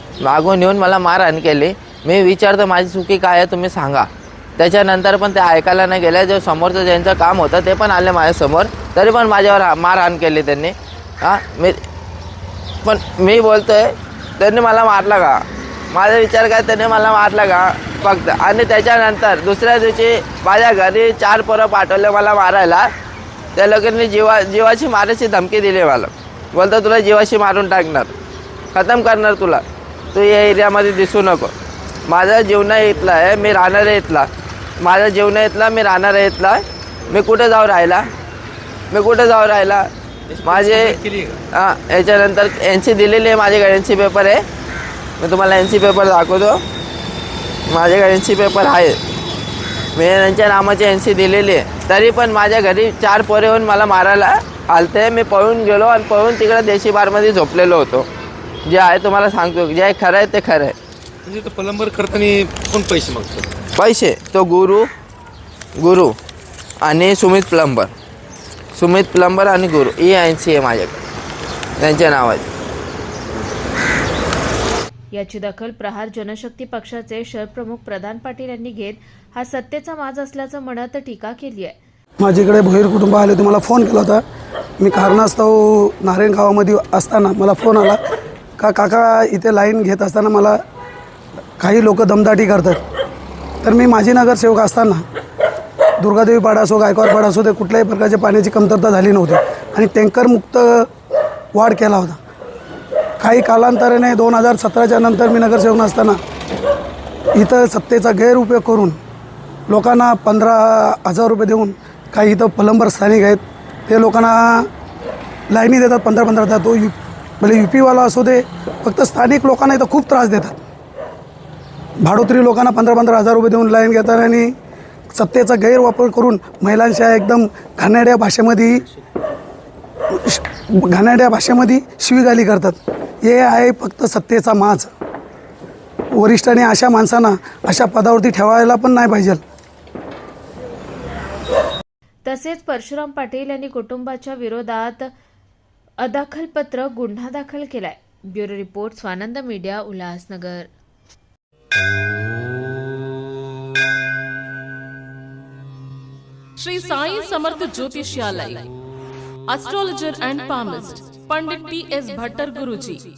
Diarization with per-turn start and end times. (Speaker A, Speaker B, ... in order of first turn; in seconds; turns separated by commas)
Speaker A: 0.2-11.8, Speaker A: 12.8-15.4, Speaker A: 15.9-22.9, Speaker A: 23.6-28.1, Speaker A: 28.7-29.6, Speaker A: 30.1-31.5, Speaker A: 32.1-34.3, Speaker A: 34.8-38.0, Speaker A: 38.9-39.9, Speaker B: 40.3-41.4, Speaker A: 40.4-41.0, Speaker A: 41.5-44.4, Speaker A: 45.2-46.6, Speaker A: 47.7-49.0, Speaker A: 50.0-58.1, Speaker A: 58.6-60.7, Speaker B: 61.2-63.6, Speaker A: 63.8-64.9, Speaker A: 65.8-66.1, Speaker A: 66.8-67.9, Speaker A: 68.8-70.9, Speaker A: 71.8-72.4, Speaker C: 75.1-81.8, Speaker D: 82.2-84.2, Speaker D: 84.8-88.0, Speaker D: 88.6-90.6, Speaker D: 91.6-92.8, Speaker D: 93.6-95.0, Speaker D: 96.0-100.9, Speaker D: 101.5-102.2, Speaker D: 103.2-106.2, Speaker D: 107.3-109.0, Speaker D: 109.7-114.7, Speaker D: 115.5-120.6, Speaker D: 122.0-124.5, Speaker D: 125.1-128.8, Speaker D: 130.2-134.9, Speaker D: 136.2-139.4, Speaker C: 142.2-145.1, Speaker C: 146.0-150.7, Speaker E: 156.6-158.7, Speaker E: 159.5-163.0